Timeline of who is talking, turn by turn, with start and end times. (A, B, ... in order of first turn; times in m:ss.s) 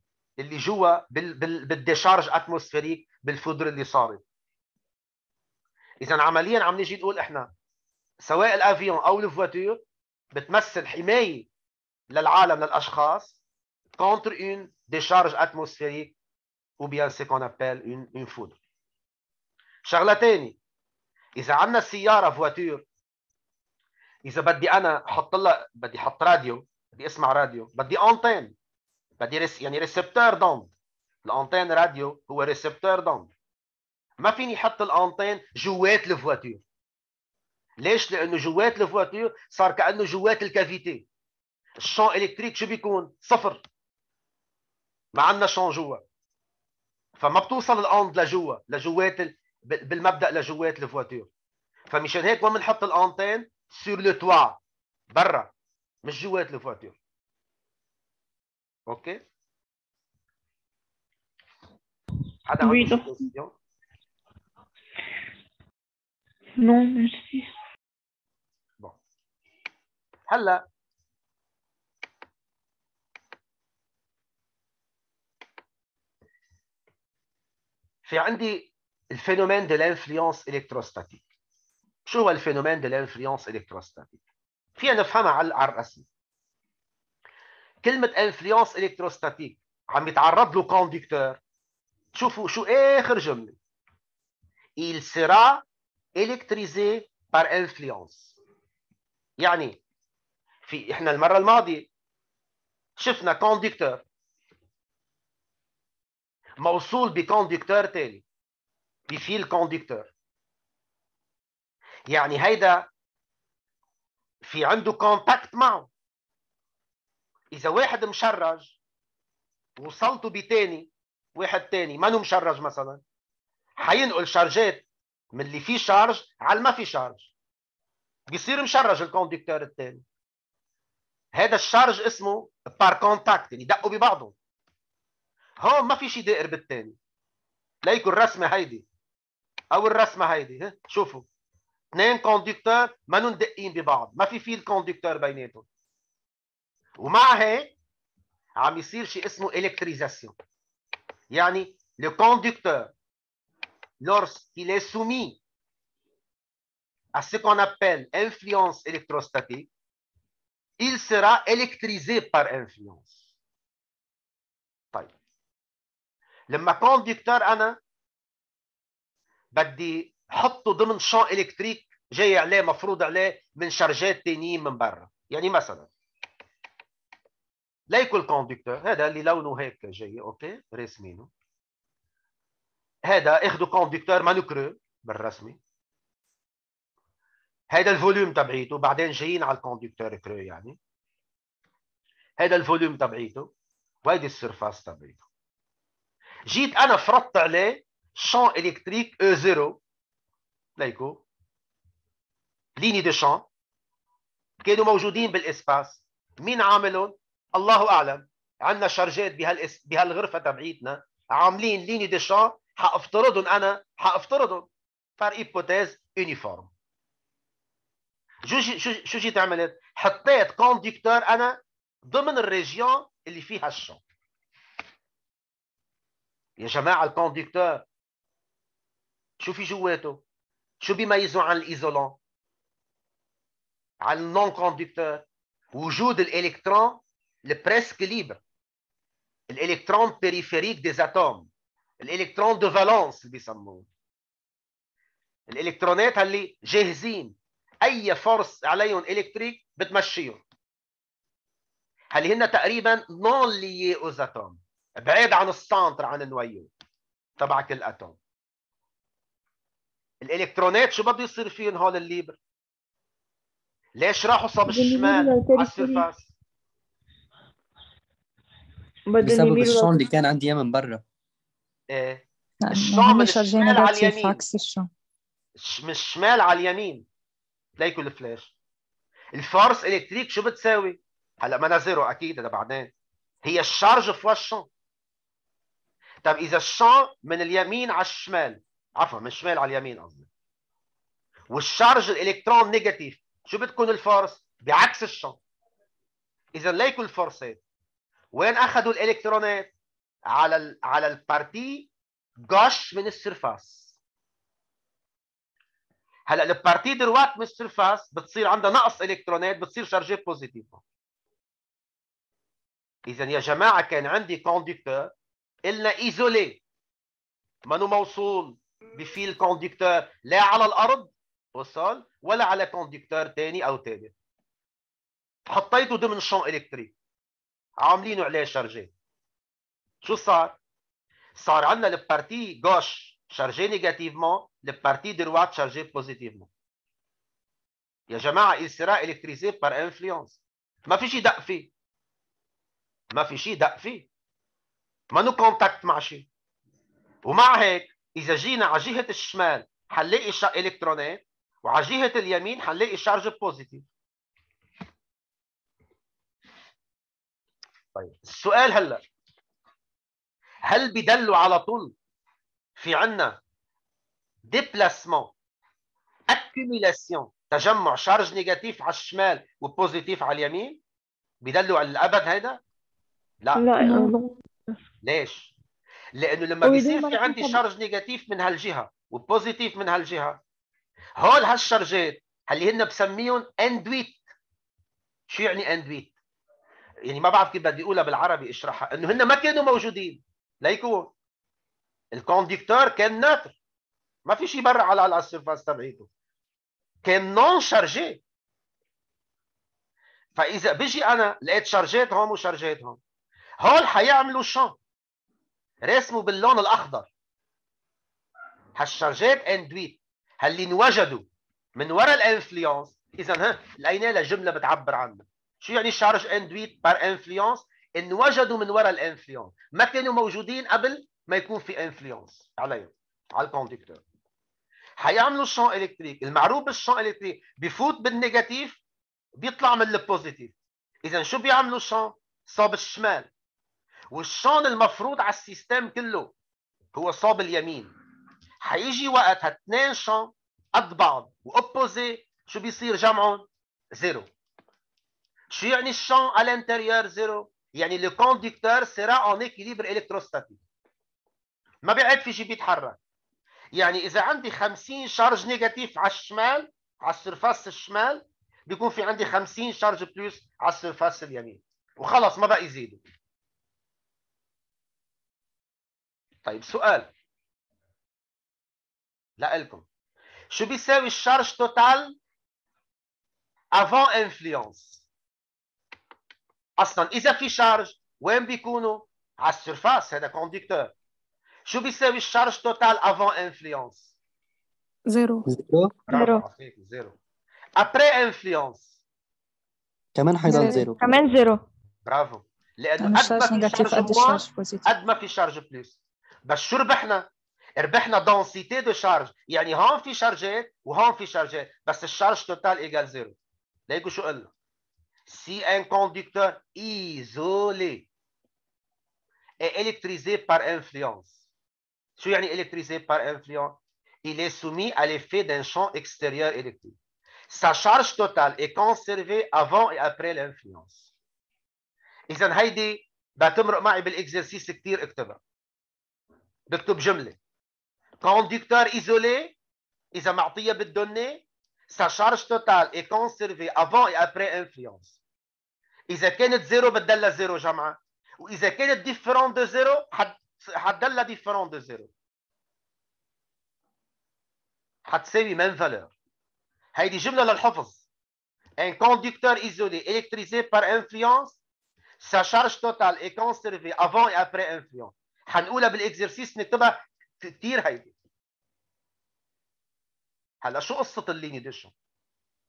0:00.4-0:04.2 A
0:06.0-0:07.5 A
0:08.2-0:09.8 A
0:10.3-0:11.5 A
0:12.1-0:13.4 A
0:14.0-0:16.1 A
0:16.8-0:18.6 A
0:19.9-0:20.6 A
0:21.4-0:22.8 A
0:24.3-0:28.5 A
0:29.2-0:30.7 A
0:31.2-0:33.3 A
0:34.2-0:36.6 A
0:37.8-0:41.0 A
0:41.8-0:43.6 A
0:45.1-0:46.0 A
0:47.2-0:51.3 A
0:51.9-0:54.6 A
0:55.1-0:55.5 A
0:56.0-0:57.0 A
0:58.9-0:59.2 A
1:02.5-1:03.5 A
1:02.6-1:03.2 B
1:06.6-1:07.5 B
1:10.3-1:10.6 A
1:18.0-1:21.2 A
1:22.1-1:24.2 A
1:24.8-1:26.1 A
1:27.8-1:31.4 A
1:32.1-1:33.6 A
1:34.8-1:35.6 A
1:36.2-1:38.4 A
1:39.4-1:39.8 A
1:40.7-1:41.9 A
1:43.0-1:44.0 A
1:46.6-1:48.2 A
1:49.1-1:50.1 A
1:52.1-1:52.9 A
1:54.4-1:55.9 A
1:57.5-1:58.8 A
1:59.8-2:03.0 A
2:03.8-2:07.3 A
2:08.3-2:10.0 A
2:11.3-2:14.3 A
2:15.6-2:17.0 A
2:17.8-2:18.9 A
2:19.7-2:21.3 A
2:21.9-2:25.7 A
2:27.0-2:27.7 A
2:28.6-2:30.3 A
2:31.3-2:32.9 A
2:34.0-2:35.4 A
2:37.2-2:39.7 A
2:40.8-2:43.2 A
2:46.5-2:47.8 A
2:49.6-2:55.9 A
2:57.9-3:01.3 A
3:03.1-3:05.6 A
3:07.7-3:10.8 A
3:12.4-3:13.5 A
3:14.0-3:15.2 A
3:16.5-3:19.8 A
3:20.8-3:21.2 A
3:22.8-3:23.5 A
3:24.6-3:36.7 A
3:38.5-3:44.0 A
3:46.6-3:47.8 A
3:49.4-3:50.2 A
3:50.8-3:52.2 A
3:54.0-3:58.4 A
3:59.5-4:01.5 A
4:02.0-4:03.9 A
4:05.5-4:10.4 A
4:12.1-4:16.7 A
4:17.4-4:18.2 A
4:20.2-4:22.4 A
4:24.0-4:26.3 A
4:24.7-4:26.1 B
4:29.1-4:30.0 B
4:29.2-4:31.0 C
4:31.9-4:34.4 A
4:32.6-4:34.9 D
4:35.6-4:37.1 A
4:37.8-4:38.5 A
4:39.4-4:42.9 A
4:43.4-4:44.7 A
4:46.2-4:50.3 A
4:51.5-4:55.4 A
4:56.6-4:57.6 A
4:58.3-4:59.7 A
5:00.3-5:01.9 A
5:02.4-5:04.0 A
5:06.3-5:10.8 A
5:13.1-5:15.1 A
5:15.7-5:16.6 A
5:17.7-5:24.1 A
5:25.5-5:26.9 A
5:27.8-5:28.9 A
5:30.0-5:30.6 A
5:31.4-5:36.5 A
5:38.1-5:41.7 A
5:43.1-5:44.1 A
5:45.1-5:46.3 A
5:47.3-5:53.9 A
5:58.0-5:59.0 A
6:00.6-6:01.9 A
6:02.8-6:03.4 A
6:04.5-6:05.3 A
6:06.3-6:10.8 A
6:11.4-6:12.6 A
6:13.6-6:14.4 B
6:15.0-6:15.5 A
6:16.2-6:20.4 A
6:16.6-6:17.6 B
6:21.2-6:24.2 A
6:25.3-6:26.1 A
6:27.1-6:31.1 A
6:32.1-6:33.6 A
6:34.3-6:36.1 A
6:37.0-6:38.2 A
6:40.4-6:43.0 A
6:43.6-6:44.8 A
6:45.8-6:47.1 A
6:48.8-6:51.3 A
6:51.8-7:04.0 A
7:05.0-7:08.8 A
7:09.4-7:10.5 A
7:11.0-7:13.3 A
7:14.1-7:16.3 A
7:16.9-7:17.9 A
7:18.6-7:24.3 A
7:25.5-7:30.6 A
7:31.8-7:33.0 A
7:33.7-7:43.0 A
7:46.4-7:47.1 A
7:49.4-7:49.8 A
7:50.5-7:52.2 A
7:53.8-7:55.0 A
7:56.8-8:00.9 A
8:01.7-8:04.1 A
8:05.1-8:05.5 D
8:05.5-8:05.9 C
8:06.1-8:07.2 A
8:06.1-8:06.4 B
8:07.8-8:09.0 A
8:10.2-8:11.0 C
8:10.4-8:11.6 B
8:10.5-8:10.8 D
8:12.1-8:23.4 A
8:13.0-8:14.9 D
8:23.9-8:24.5 A
8:25.3-8:28.1 A
8:29.6-8:31.4 A
8:32.2-8:37.0 A
8:37.5-8:41.1 A
8:42.3-8:45.4 A
8:46.7-8:47.4 A
8:48.2-8:49.5 A
8:50.2-8:55.2 A
8:56.1-9:02.1 A
9:05.1-9:06.1 A
9:07.0-9:08.0 A
9:08.8-9:11.6 A
9:12.2-9:18.1 A
9:20.6-9:21.9 A